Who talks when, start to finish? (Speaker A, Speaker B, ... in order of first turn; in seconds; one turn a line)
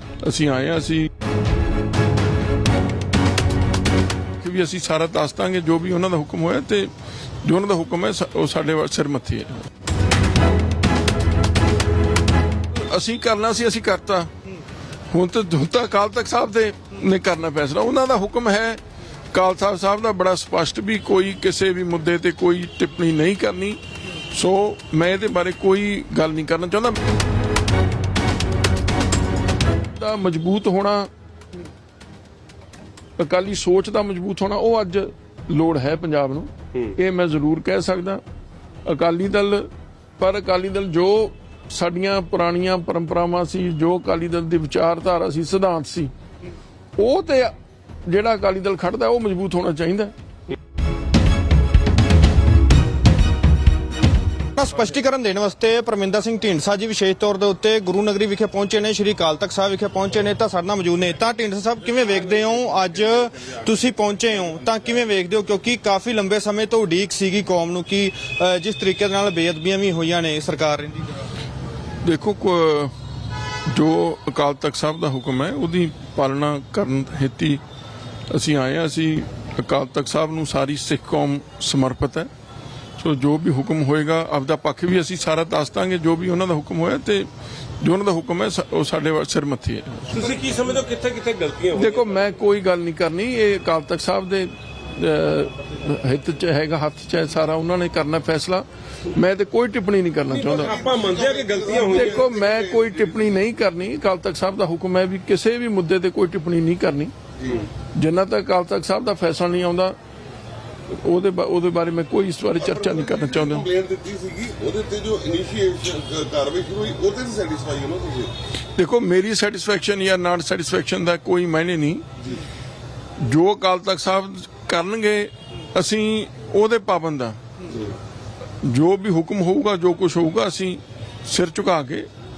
Speaker A: 0.2-1.1
Speaker A: 4.4-6.9
Speaker A: 7.4-9.6
Speaker A: 12.7-14.3
Speaker A: 15.1-18.8
Speaker A: 19.3-27.0
Speaker A: 29.9-31.1
Speaker A: 33.2-38.2
Speaker A: 38.9-46.1
Speaker A: 47.0-47.5
Speaker A: 48.0-50.1
Speaker B: 54.5-71.1
Speaker A: 72.0-72.9
Speaker A: 73.7-77.6
Speaker A: 78.3-82.3
Speaker A: 83.0-87.3
Speaker A: 87.8-90.1
Speaker C: 90.1-92.2
Speaker A: 91.7-100.8
Speaker C: 100.3-102.2
Speaker D: 100.5-103.4
Speaker A: 101.7-107.1
Speaker D: 107.4-107.7
Speaker A: 107.9-110.0
Speaker A: 110.9-113.7
Speaker D: 112.6-118.3
Speaker A: 118.8-122.0
Speaker A: 123.2-127.4
Speaker A: 128.6-132.1